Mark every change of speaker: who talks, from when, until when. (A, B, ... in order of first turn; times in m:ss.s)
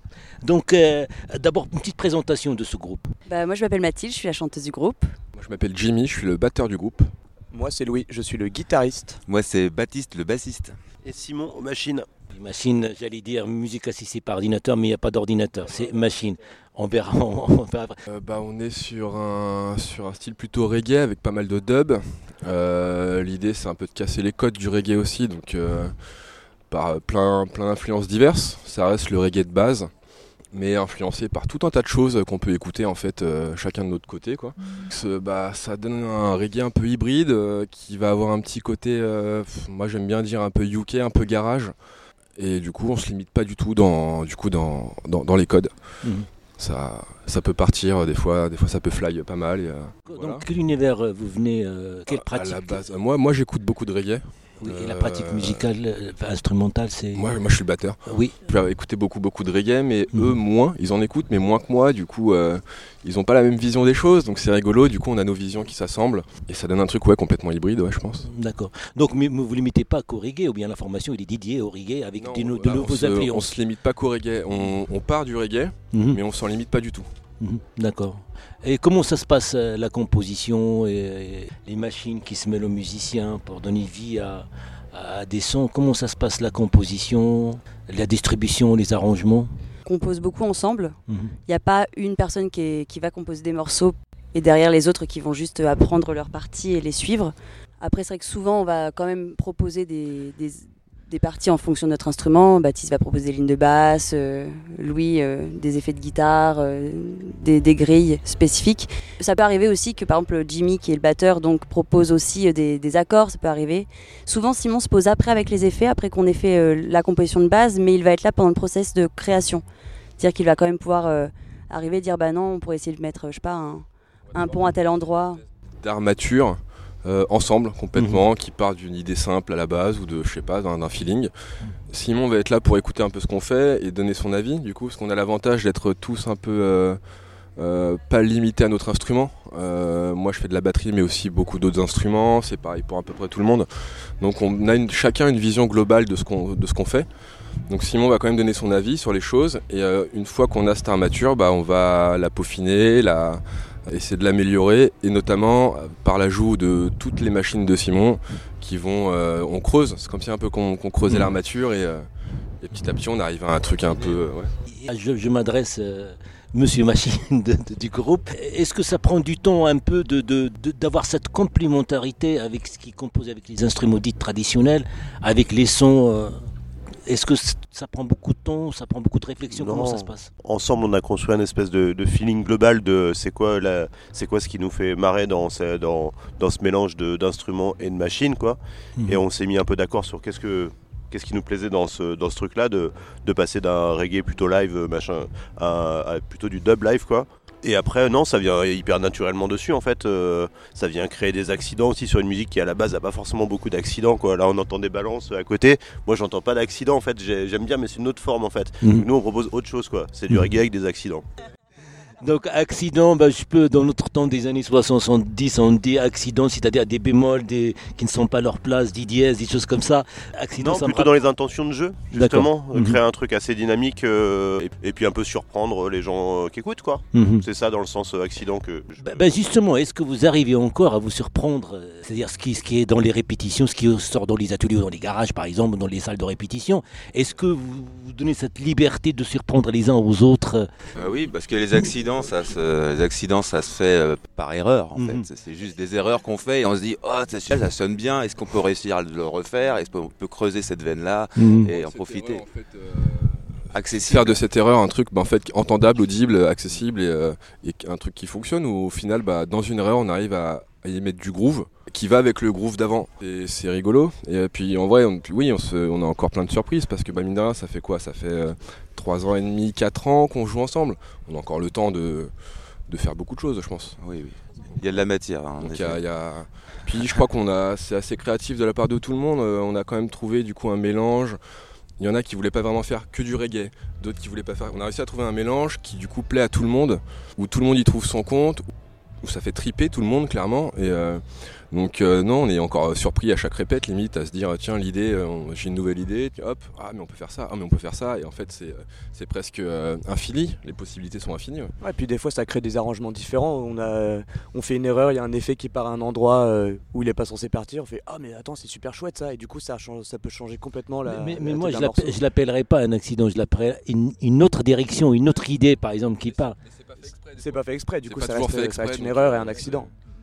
0:00.4-0:03.1 A
0:03.3-0:05.1 B
0:05.4-0:07.1 C
0:07.5-0:09.2 D
0:09.3-0:10.8 E
0:11.0-0:12.1 F
0:12.3-0:18.0 A
0:18.1-0:26.0 C
0:26.7-0:29.9 C
0:30.5-0:41.7 C
0:42.4-0:46.0 C
0:46.6-0:50.5 C
0:50.1-0:52.8 A
0:52.1-0:55.6 C
0:54.6-0:57.3 A
0:57.1-1:08.3 C
0:58.1-0:58.4 A
1:08.2-1:13.6 A
1:12.2-1:17.1 C
1:15.9-1:16.2 A
1:17.4-1:29.5 A
1:29.9-1:31.0 B
1:31.5-1:59.6 B
2:00.2-2:05.4 B
2:05.8-2:11.3 C
2:11.9-2:17.0 C
2:17.6-2:23.7 C
2:24.2-2:27.1 C
2:27.7-2:42.0 C
2:42.6-2:44.5 C
2:44.7-2:56.4 A
2:57.1-3:00.3 A
2:59.5-3:31.2 F
3:28.8-3:29.1 A
3:32.2-3:41.2 A
3:40.6-3:49.2 F
3:42.1-3:43.0 A
3:47.1-3:47.5 A
3:49.0-4:00.7 A
4:01.0-4:12.4 E
4:05.0-4:05.3 A
4:11.4-4:11.7 A
4:11.7-4:32.3 C
4:13.7-4:14.4 E
4:32.9-4:34.0 C
4:34.0-4:36.0 E
4:35.6-4:41.4 C
4:42.0-4:48.6 C
4:49.2-5:01.7 C
5:01.8-5:12.2 D
5:11.0-5:16.6 A
5:16.5-5:17.5 C
5:17.4-5:19.8 D
5:18.1-5:19.9 C